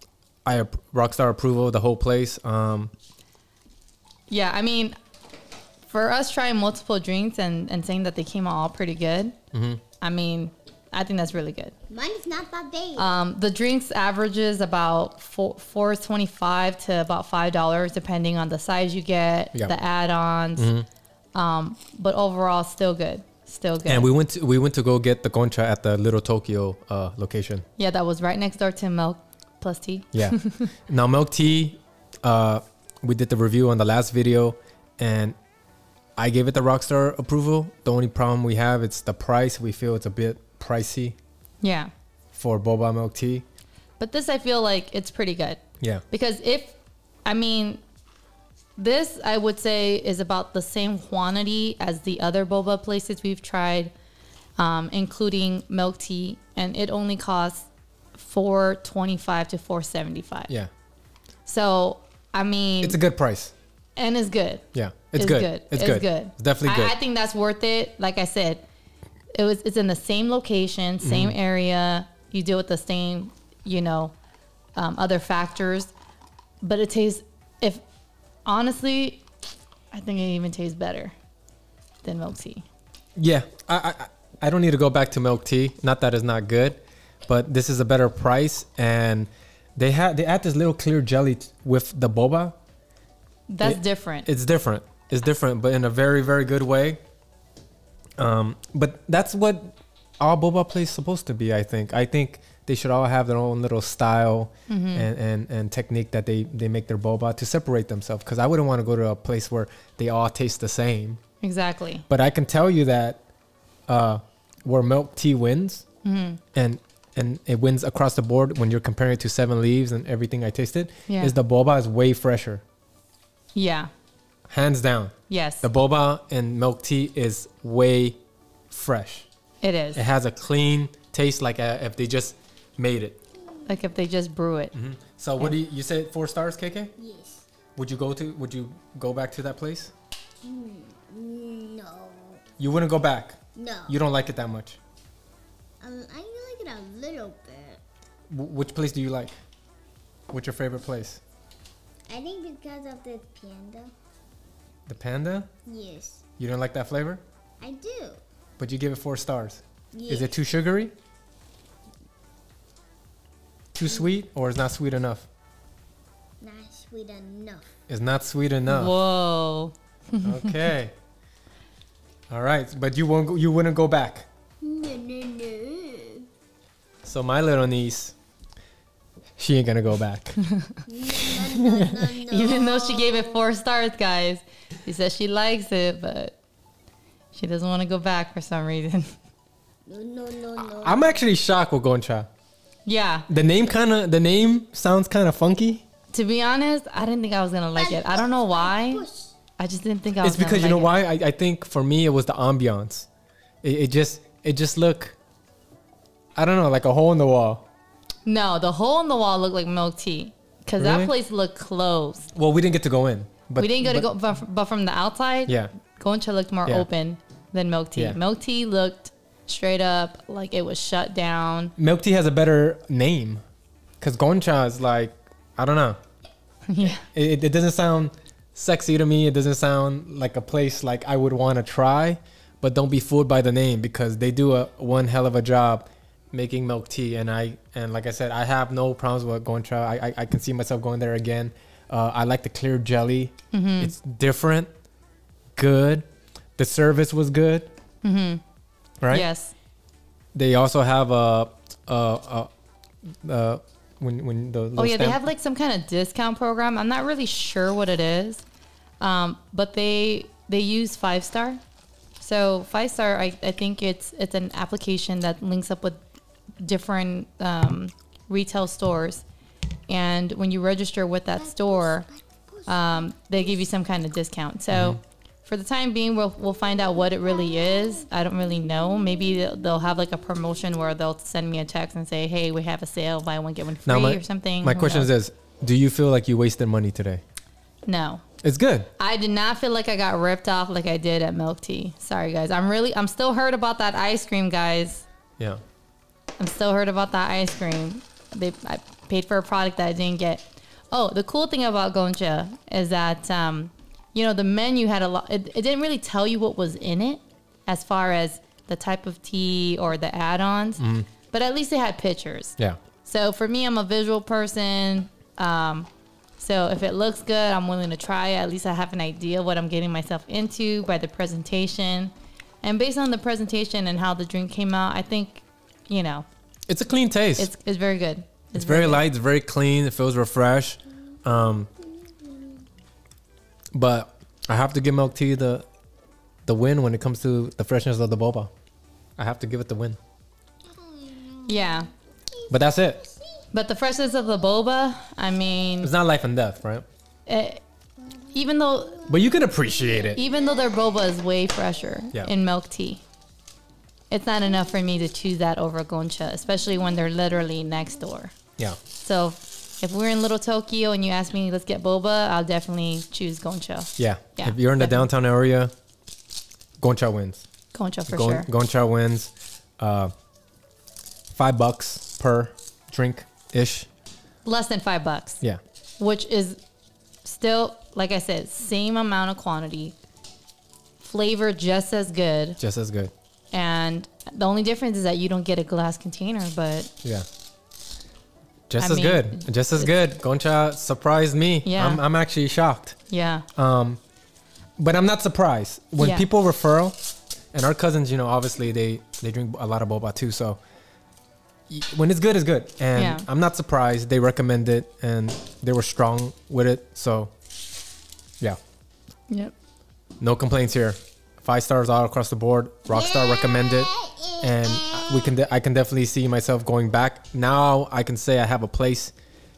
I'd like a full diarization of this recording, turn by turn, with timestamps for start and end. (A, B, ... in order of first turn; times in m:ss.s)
0:00.4-0:02.9 A
0:04.3-0:05.0 B
0:05.9-0:09.4 B
0:09.5-0:09.8 A
0:10.0-0:11.7 B
0:11.9-0:13.1 C
0:13.0-0:20.7 B
0:20.6-0:20.9 A
0:21.4-0:24.1 B
0:23.9-0:27.6 A
0:27.8-0:30.7 B
0:30.1-0:35.4 A
0:36.2-0:41.2 A
0:41.6-0:41.9 B
0:42.3-0:43.4 A
0:44.0-0:47.8 B
0:48.8-0:53.9 B
0:54.6-1:00.5 B
1:01.5-1:03.0 B
1:02.8-1:03.5 A
1:04.0-1:08.6 B
1:04.7-1:07.0 A
1:09.3-1:14.2 B
1:11.0-1:11.4 A
1:14.8-1:15.9 B
1:16.6-1:17.8 B
1:18.5-1:19.2 B
1:19.9-1:21.1 B
1:22.0-1:22.6 B
1:23.2-1:32.6 A
1:33.5-1:34.3 B
1:33.6-1:37.0 A
1:38.2-1:51.2 A
1:44.7-1:45.1 B
1:51.4-1:52.1 B
1:52.1-1:53.2 A
1:53.9-1:55.8 A
1:56.0-1:56.4 B
1:56.6-2:02.6 A
2:01.1-2:01.3 B
2:03.6-2:03.9 B
2:04.5-2:08.2 A
2:05.3-2:05.7 B
2:08.7-2:09.3 A
2:09.6-2:10.0 B
2:10.0-2:13.2 A
2:13.7-2:14.7 B
2:14.7-2:16.9 A
2:17.0-2:17.4 C
2:17.8-2:19.9 A
2:20.4-2:22.4 C
2:22.6-2:24.8 A
2:23.6-2:24.0 C
2:25.8-2:27.8 C
2:28.3-2:29.4 A
2:30.3-2:31.2 A
2:32.1-2:33.9 C
2:34.9-2:35.5 A
2:35.7-2:36.2 C
2:36.4-2:37.2 A
2:37.6-2:38.2 C
2:38.6-2:40.9 A
2:39.9-2:40.3 C
2:43.8-2:45.3 A
2:46.4-2:47.7 C
2:47.9-2:49.0 A
2:48.7-2:50.4 B
2:50.2-2:50.9 A
2:52.3-2:54.3 A
2:54.6-2:56.3 C
2:57.0-2:58.2 A
2:59.4-3:00.4 A
3:00.9-3:03.4 C
3:01.4-3:02.1 A
3:02.3-3:06.4 B
3:07.3-3:09.1 B
3:09.9-3:11.2 C
3:10.6-3:12.3 A
3:12.9-3:13.3 B
3:13.3-3:15.8 A
3:16.1-3:19.0 B
3:17.8-3:19.4 C
3:19.6-3:20.9 B
3:20.2-3:23.1 A
3:23.6-3:25.2 A
3:26.4-3:27.6 A
3:28.3-3:32.3 B
3:30.8-3:31.1 A
3:32.4-3:34.1 A
3:33.6-3:41.7 B
3:41.8-3:43.4 A
3:44.0-3:46.0 A
3:46.7-3:47.0 B
3:47.0-4:04.7 A
4:03.5-4:03.9 B
4:05.6-4:06.1 A
4:06.6-4:07.7 A
4:08.0-4:08.4 B
4:09.0-4:09.3 A
4:09.1-4:09.5 B
4:10.4-4:12.5 A
4:13.2-4:15.2 A
4:14.8-4:18.4 B
4:19.0-4:21.6 B
4:22.2-4:26.0 B
4:26.6-4:29.2 B
4:29.9-4:32.1 B
4:31.3-4:33.1 C
4:32.7-4:45.1 B
4:34.7-4:35.0 A
4:37.2-4:38.0 C
4:43.8-4:47.2 A
4:47.9-4:48.2 B
4:48.4-4:48.9 A
4:49.0-4:55.0 B
4:56.4-5:26.3 B
5:10.8-5:11.1 A
5:26.7-5:27.5 A
5:27.4-5:29.0 B
5:28.5-5:31.7 A
5:33.7-5:35.7 A
5:36.5-5:38.5 A
5:39.2-5:40.0 A
5:40.7-5:42.5 C
5:41.5-5:41.9 B
5:42.5-5:43.0 A
5:43.5-5:45.9 B
5:45.8-5:46.8 A
5:47.3-5:47.6 B
5:48.3-5:49.1 B
5:49.1-5:50.2 A
5:49.4-5:50.6 C
5:50.1-5:53.0 B
5:54.1-5:58.3 B
5:59.0-6:05.0 B
6:04.0-6:05.7 A
6:06.8-6:07.5 A
6:07.7-6:08.5 B
6:08.1-6:10.1 A
6:11.3-6:13.9 A
6:14.4-6:15.4 B
6:16.0-6:16.6 B
6:17.2-6:20.0 B
6:21.0-6:22.6 B
6:22.6-6:23.1 A
6:23.5-6:26.9 B
6:28.7-6:33.0 A
6:28.8-6:29.8 B
6:31.6-6:32.0 B
6:33.1-6:33.5 B
6:33.6-6:34.0 A
6:34.8-6:37.0 A
6:36.0-6:36.3 B
6:37.5-6:40.6 A
6:41.7-6:47.3 A
6:43.0-6:43.3 B
6:50.2-6:59.1 A
6:52.9-6:55.3 C